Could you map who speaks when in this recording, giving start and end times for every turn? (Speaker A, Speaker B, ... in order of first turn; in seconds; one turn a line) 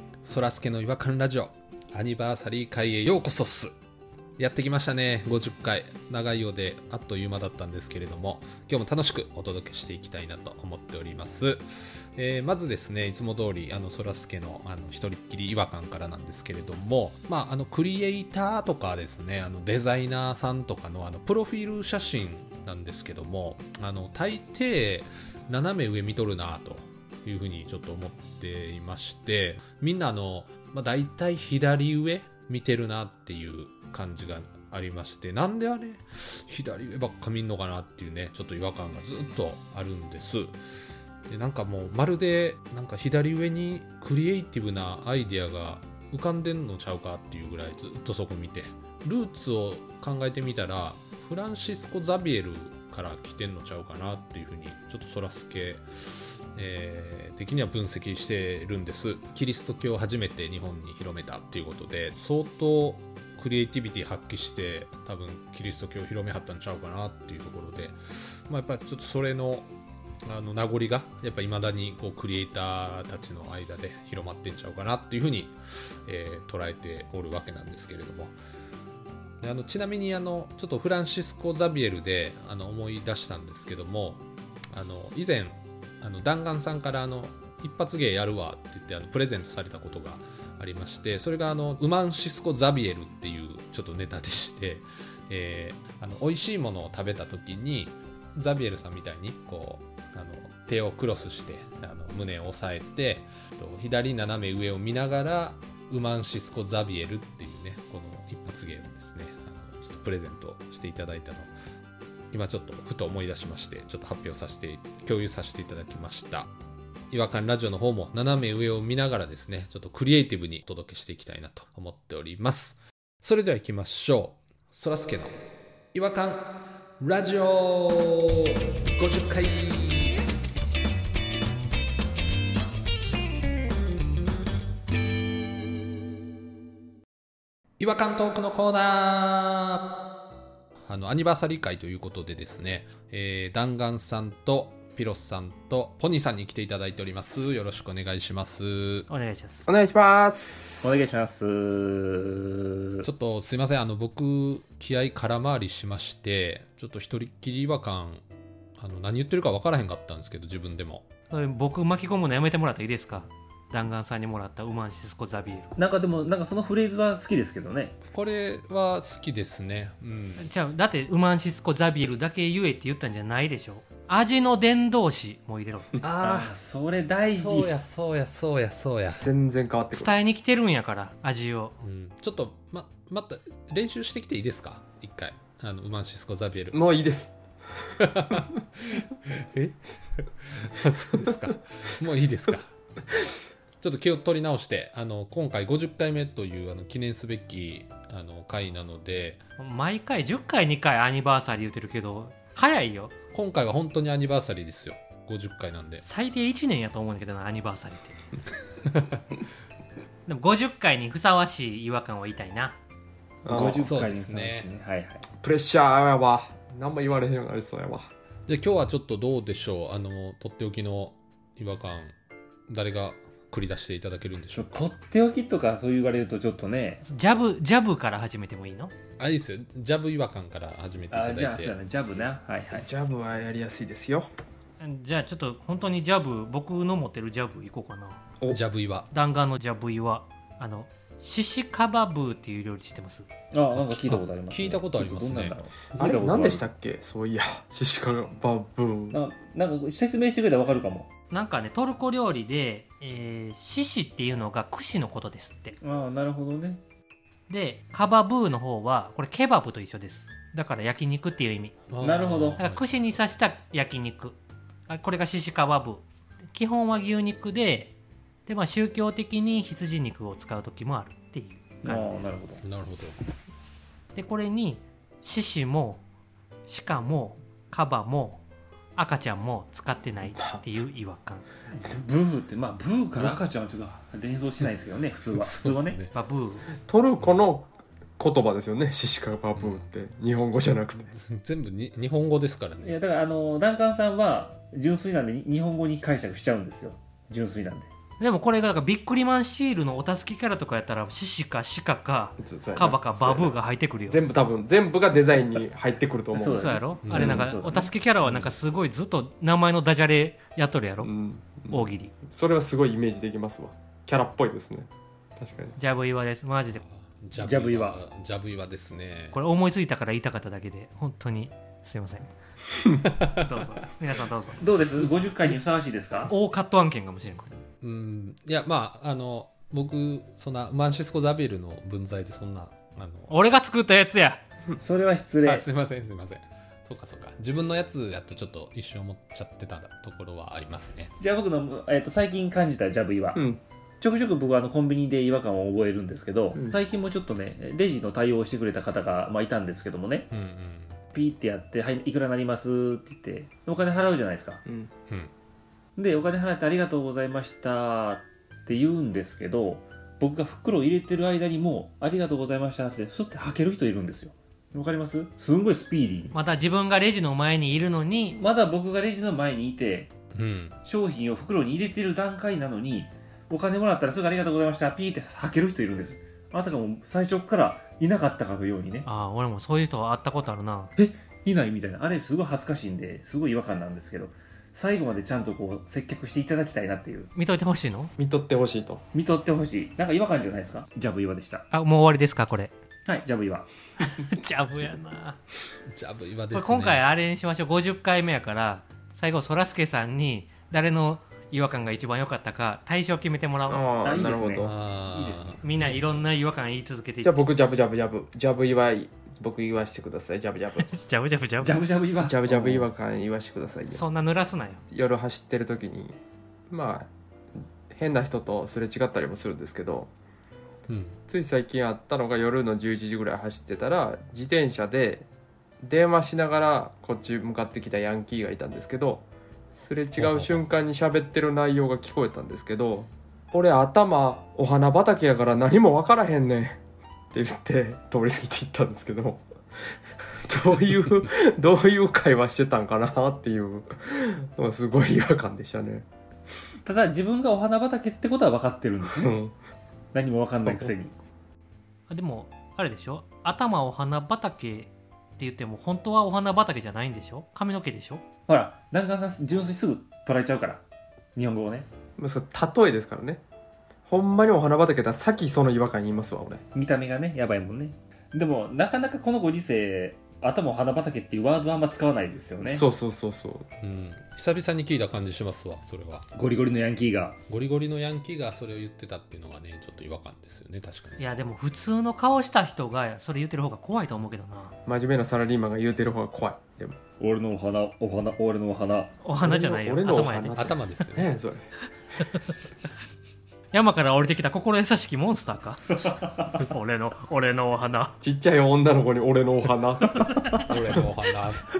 Speaker A: 0.2-3.7
Speaker A: 4.4-40.5
Speaker A: 41.3-69.7
Speaker A: 70.2-78.3
Speaker A: 79.4-111.5
Speaker A: 112.3-116.5
Speaker A: 117.1-125.4
Speaker A: 125.9-130.2
Speaker A: 137.8-139.9
Speaker A: 140.8-149.1
Speaker B: 149.1-149.7
Speaker C: 149.7-151.0
Speaker D: 150.8-153.1
Speaker A: 153.0-158.2
Speaker A: 158.8-161.1
Speaker B: 161.3-165.7
Speaker D: 165.8-168.0
Speaker A: 168.1-170.4
Speaker B: 170.4-175.9
Speaker A: 176.0-176.5
Speaker D: 176.2-177.7
Speaker A: 177.3-179.3
Speaker C: 179.2-180.1
Speaker B: 179.9-181.7
Speaker A: 181.8-186.8
Speaker C: 186.7-187.4
Speaker A: 188.0-192.7
Speaker A: 193.8-199.4
Speaker B: 199.6-203.1
Speaker A: 203.3-206.0
Speaker B: 206.0-208.2
Speaker A: 208.9-209.2
Speaker B: 210.3-212.8
Speaker C: 213.4-213.9
Speaker D: 213.5-215.2
Speaker A: 213.8-214.7
Speaker C: 215.4-218.1
Speaker A: 218.5-222.1
Speaker A: 222.7-224.9
Speaker D: 224.5-227.0
Speaker B: 227.0-228.9
Speaker A: 229.2-231.7
Speaker D: 231.1-232.9
Speaker C: 232.7-234.3
Speaker B: 234.8-238.2
Speaker A: 238.5-239.1
Speaker B: 239.1-243.3
Speaker D: 243.5-246.6
Speaker A: 243.7-245.6
Speaker C: 246.0-249.2
Speaker D: 249.1-251.1
Speaker B: 251.3-255.8
Speaker D: 255.8-256.8
Speaker B: 257.5-261.7
Speaker A: 261.9-262.9
Speaker D: 262.0-262.6
Speaker B: 262.6-264.4
Speaker B: 264.9-266.0
Speaker B: 266.5-267.9
Speaker B: 268.5-272.3
Speaker D: 271.8-272.6
Speaker A: 272.6-273.2
Speaker B: 274.1-276.0
Speaker B: 276.7-278.4
Speaker B: 278.9-281.4
Speaker C: 280.4-280.6
Speaker D: 281.7-286.0
Speaker A: 285.3-286.1
Speaker B: 286.1-286.7
Speaker C: 286.9-291.1
Speaker A: 289.6-289.8
Speaker A: 291.1-293.0
Speaker D: 292.8-297.9
Speaker B: 298.2-304.2
Speaker C: 302.4-303.6
Speaker C: 304.1-307.2
Speaker D: 306.3-307.9
Speaker B: 306.5-311.1
Speaker A: 307.0-307.5
Speaker A: 308.2-308.5
Speaker C: 311.0-315.8
Speaker B: 311.7-312.1
Speaker B: 315.8-316.8
Speaker A: 316.7-319.4
Speaker D: 317.4-318.0
Speaker B: 319.3-322.3
Speaker C: 322.7-323.0
Speaker B: 323.3-324.6
Speaker D: 324.6-326.3
Speaker B: 326.3-327.5
Speaker A: 327.8-333.3
Speaker B: 333.3-334.4
Speaker D: 334.8-335.6
Speaker A: 335.4-341.1
Speaker D: 341.2-343.4
Speaker C: 343.3-343.6
Speaker D: 344.0-350.3
Speaker C: 346.5-346.8
Speaker A: 350.3-351.0
Speaker D: 351.1-354.6
Speaker D: 355.9-366.3
Speaker B: 366.3-368.4
Speaker D: 368.4-370.1
Speaker A: 370.3-370.8
Speaker D: 370.8-379.1
Speaker B: 379.0-380.9
Speaker D: 381.0-387.3
Speaker B: 387.3-388.1
Speaker C: 388.2-389.0
Speaker D: 389.1-391.6
Speaker B: 391.7-392.7
Speaker D: 393.1-393.7
Speaker B: 394.0-395.4
Speaker A: 395.9-397.0
Speaker B: 396.5-403.9
Speaker C: 403.7-404.7
Speaker D: 404.0-405.6
Speaker A: 404.6-406.2
Speaker B: 405.6-407.4
Speaker C: 407.2-410.9
Speaker B: 410.8-411.8
Speaker D: 411.6-412.9
Speaker C: 412.2-414.0
Speaker B: 413.9-414.8
Speaker C: 414.9-416.1
Speaker C: 416.7-417.1
Speaker C: 417.9-420.1
Speaker A: 420.9-421.1
Speaker C: 421.3-425.3
Speaker C: 425.8-436.8
Speaker A: 430.2-430.6
Speaker C: 437.3-439.4
Speaker C: 440.3-446.1
Speaker D: 446.8-449.3
Speaker C: 449.1-449.5
Speaker D: 450.1-451.1
Speaker B: 452.1-458.2
Speaker D: 458.5-460.8
Speaker D: 461.3-461.9
Speaker C: 462.2-463.4
Speaker C: 464.1-466.6
Speaker D: 466.7-472.8
Speaker C: 472.6-473.6
Speaker A: 473.8-476.2
Speaker D: 476.3-477.4
Speaker A: 477.5-481.2
Speaker B: 481.2-484.7
Speaker C: 484.9-487.0
Speaker D: 487.2-489.1
Speaker B: 489.2-490.7
Speaker C: 489.4-491.7
Speaker A: 490.6-491.3
Speaker B: 492.2-492.5
Speaker B: 493.7-496.0
Speaker B: 496.5-498.1
Speaker C: 498.2-501.0
Speaker A: 500.6-501.7